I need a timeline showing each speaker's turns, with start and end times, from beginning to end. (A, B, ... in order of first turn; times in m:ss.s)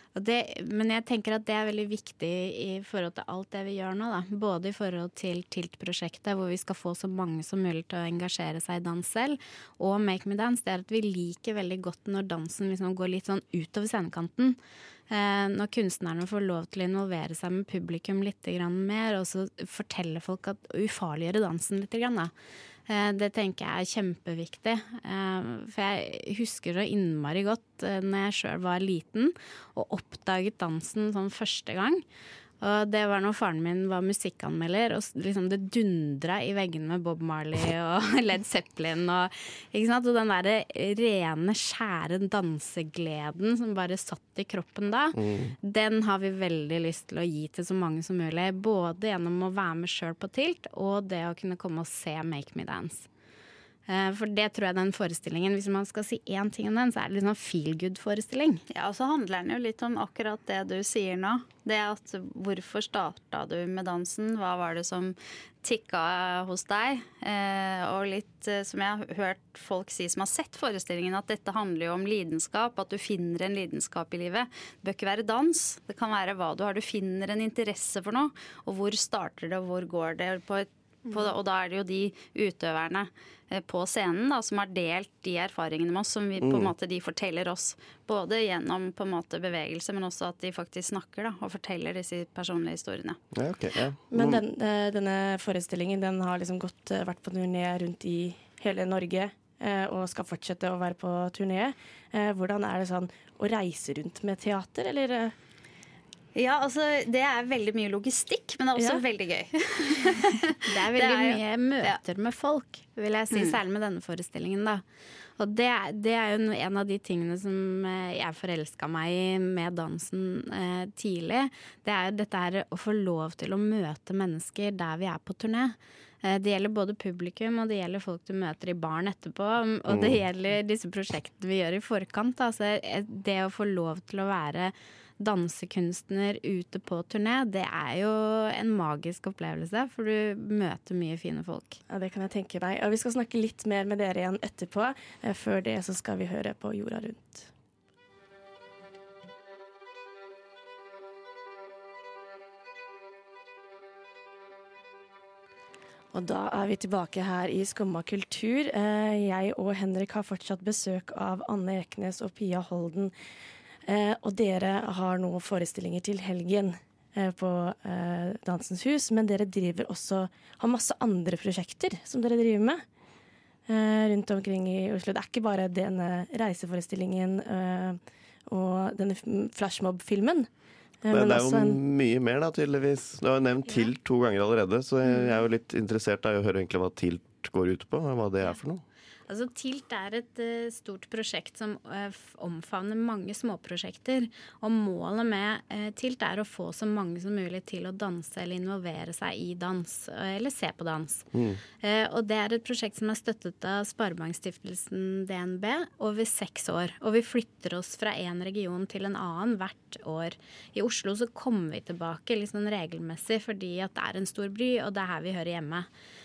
0:00.2-0:14.6 A
0:15.1-0:22.3 A
0:22.9-0:32.0 A
0:32.6-0:53.1 A
0:45.1-0:45.6 B
0:53.9-0:58.6 A
0:58.7-1:33.2 C
1:26.4-1:26.7 B
1:33.3-1:34.4 B
1:34.1-1:45.3 D
1:46.4-1:52.0 C
1:48.8-1:49.0 D
1:50.7-1:54.8 A
1:55.4-2:21.8 A
2:09.9-2:10.2 B
2:21.9-2:27.5 D
2:36.1-2:43.1 D
2:43.9-2:52.8 D
2:53.7-3:00.5 D
3:01.0-3:01.8 D
3:01.1-3:08.8 B
3:09.3-3:21.3 A
3:21.3-3:21.6 B
3:21.8-3:35.9 A